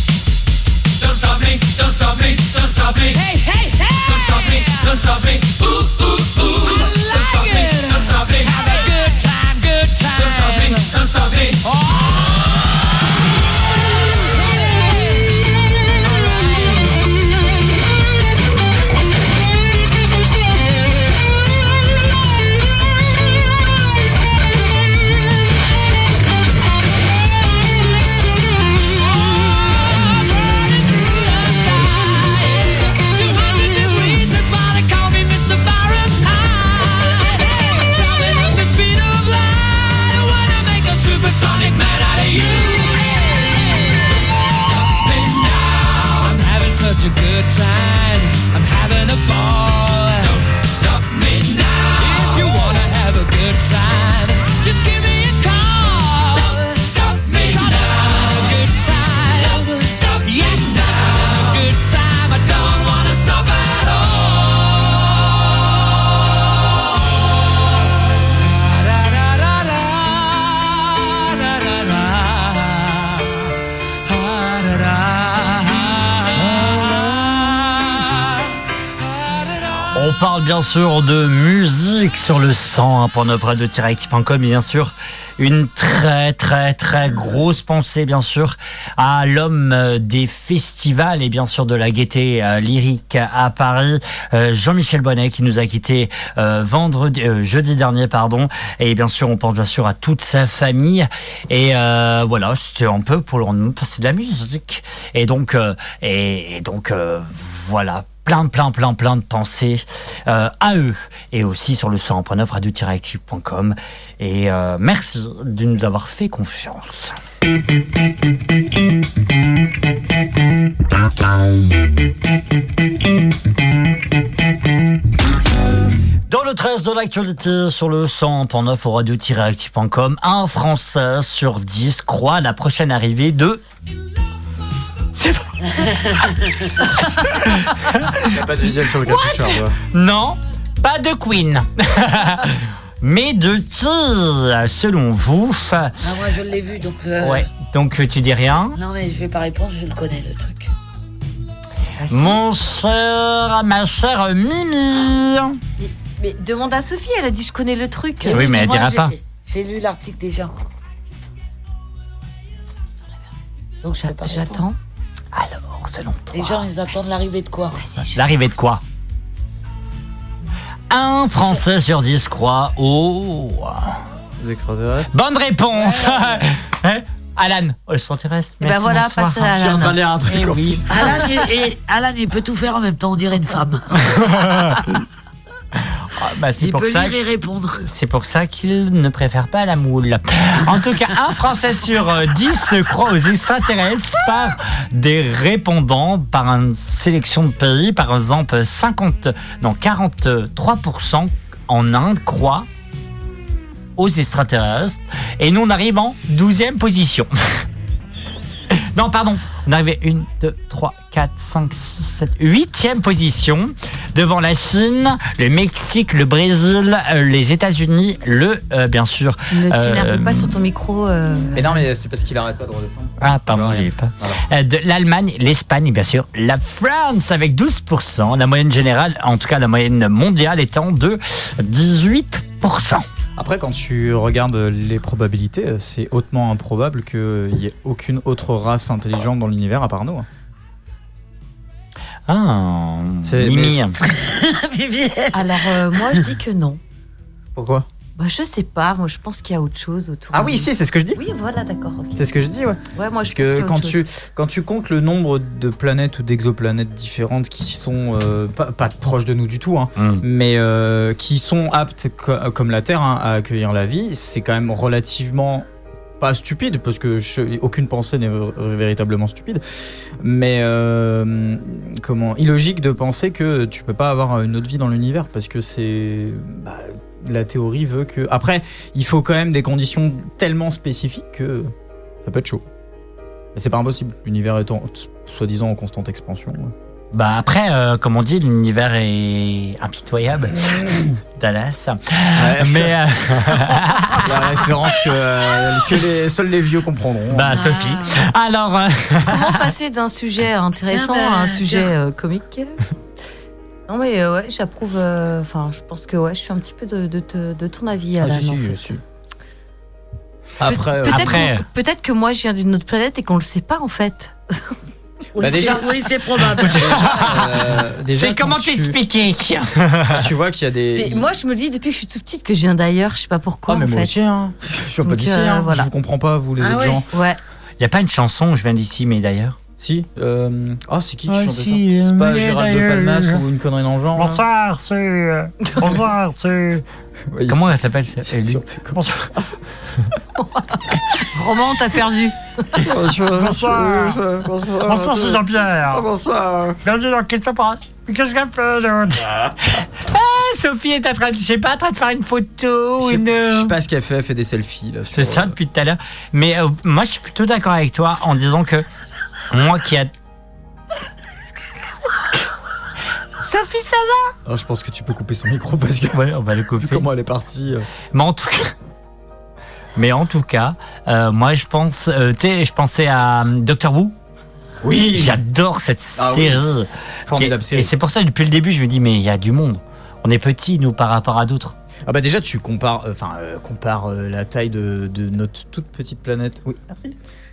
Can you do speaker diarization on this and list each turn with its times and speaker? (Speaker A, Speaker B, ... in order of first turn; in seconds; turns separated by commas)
Speaker A: 1.0-12.8, Speaker A: 13.9-15.4, Speaker A: 15.9-17.1, Speaker A: 28.9-65.0, Speaker A: 68.4-73.4, Speaker A: 74.0-78.4, Speaker B: 76.6-77.0, Speaker B: 79.9-117.2, Speaker B: 126.3-133.6, Speaker B: 135.1-136.3, Speaker C: 135.8-136.5, Speaker B: 137.0-138.4, Speaker D: 138.2-139.8, Speaker B: 139.0-145.9, Speaker C: 146.0-147.5, Speaker B: 147.2-148.8, Speaker C: 148.7-150.7, Speaker E: 152.0-152.4, Speaker B: 152.1-155.6, Speaker E: 155.8-158.4, Speaker C: 158.2-160.5, Speaker B: 158.3-159.1, Speaker C: 163.8-164.6, Speaker E: 164.0-164.8, Speaker B: 165.3-166.7, Speaker C: 166.3-167.8, Speaker E: 167.8-168.2, Speaker B: 168.1-168.8, Speaker B: 170.9-174.0, Speaker D: 174.4-175.1, Speaker B: 175.1-181.1, Speaker E: 178.6-180.0, Speaker D: 179.8-181.2, Speaker C: 180.9-184.2, Speaker B: 184.1-184.8, Speaker B: 185.8-187.2, Speaker C: 186.6-187.8, Speaker B: 187.8-202.7, Speaker B: 204.0-207.3, Speaker B: 208.7-220.6, Speaker E: 219.5-221.8, Speaker D: 221.5-224.4, Speaker B: 223.2-233.1, Speaker D: 233.3-240.2, Speaker B: 242.3-244.0, Speaker D: 243.2-243.9, Speaker C: 244.1-245.5, Speaker E: 245.3-246.8, Speaker D: 247.6-247.9, Speaker E: 248.2-252.2, Speaker D: 250.3-251.2, Speaker D: 252.1-265.7, Speaker E: 252.9-254.0, Speaker B: 260.0-260.2, Speaker D: 266.2-269.6, Speaker D: 270.2-281.7, Speaker D: 282.2-282.6, Speaker D: 283.5-286.7, Speaker B: 287.1-294.3, Speaker D: 290.6-290.9, Speaker D: 292.3-297.6, Speaker B: 297.3-299.5, Speaker C: 297.5-298.2, Speaker E: 299.2-302.8, Speaker C: 300.9-301.9, Speaker E: 303.9-308.8, Speaker D: 308.2-309.0, Speaker D: 310.6-311.5, Speaker E: 310.6-314.3, Speaker B: 311.1-311.6, Speaker C: 315.3-317.4, Speaker D: 315.4-316.0, Speaker B: 316.6-320.3, Speaker D: 316.6-319.0, Speaker D: 320.1-321.3, Speaker E: 320.9-324.2, Speaker D: 323.7-327.1, Speaker E: 325.0-325.9, Speaker C: 326.6-327.0, Speaker E: 327.1-327.4, Speaker B: 327.8-329.6, Speaker D: 329.8-334.4, Speaker B: 331.3-333.4, Speaker B: 334.2-336.8, Speaker D: 337.3-339.5, Speaker B: 337.5-339.2, Speaker E: 340.6-342.3, Speaker D: 342.8-346.8, Speaker B: 343.3-344.2, Speaker B: 344.8-346.1, Speaker B: 346.8-353.7, Speaker D: 353.0-355.6, Speaker B: 355.1-358.9, Speaker B: 359.5-360.1, Speaker B: 363.4-364.3, Speaker D: 364.4-366.3, Speaker B: 366.1-367.1, Speaker D: 366.8-367.9, Speaker B: 368.1-368.7, Speaker B: 369.9-374.1, Speaker D: 374.8-375.4, Speaker B: 375.1-381.8, Speaker D: 376.1-376.6, Speaker D: 377.3-377.9, Speaker D: 382.1-387.2